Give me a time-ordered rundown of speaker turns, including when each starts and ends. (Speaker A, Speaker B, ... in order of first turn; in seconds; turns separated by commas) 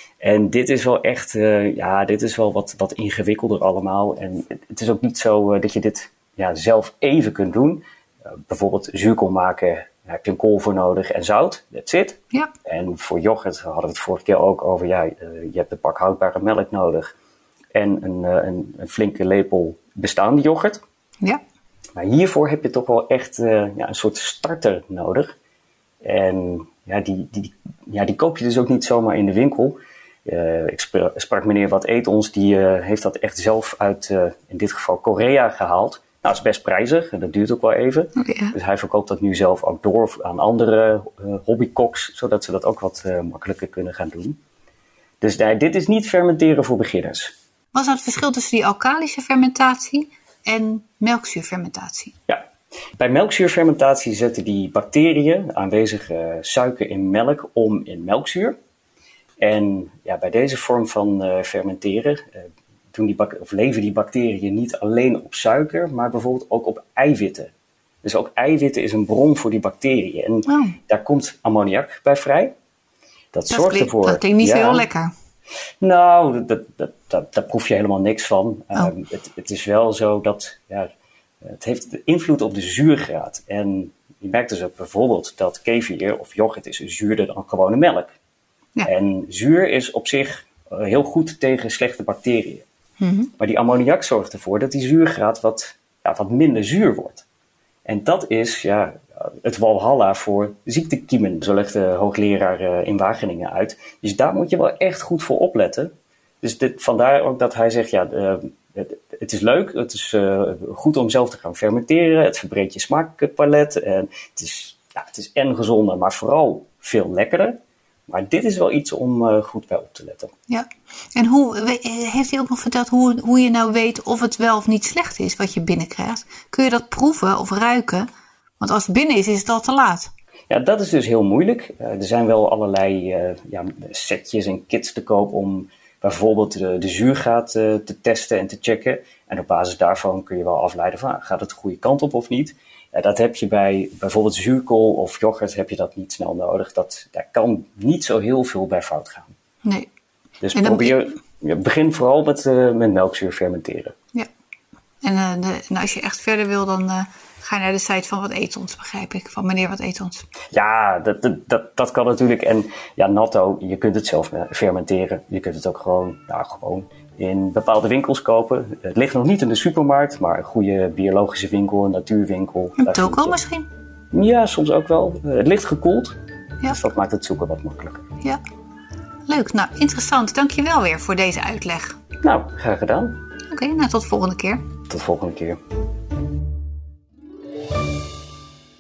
Speaker A: 0.2-17.1, Speaker A: 17.7-20.8, Speaker A: 22.0-25.3, Speaker A: 26.0-44.4, Speaker B: 38.2-38.5, Speaker A: 45.2-47.3, Speaker B: 47.7-52.1, Speaker A: 53.0-58.5, Speaker A: 59.4-67.5, Speaker A: 68.0-72.5, Speaker B: 70.5-70.8, Speaker A: 73.3-74.8, Speaker B: 73.5-75.1, Speaker A: 75.8-80.9, Speaker A: 81.4-88.2, Speaker A: 88.8-92.7, Speaker B: 93.0-93.3, Speaker A: 93.4-97.2, Speaker A: 97.9-117.6, Speaker A: 118.1-120.3, Speaker B: 120.5-128.1, Speaker B: 128.6-130.1, Speaker A: 130.5-149.3, Speaker A: 150.4-153.9, Speaker B: 150.5-151.0, Speaker B: 155.0-160.3, Speaker A: 160.5-173.4, Speaker B: 172.8-173.7, Speaker A: 174.1-178.1, Speaker B: 179.3-182.0, Speaker A: 182.2-183.2, Speaker B: 183.5-184.6, Speaker A: 184.9-185.6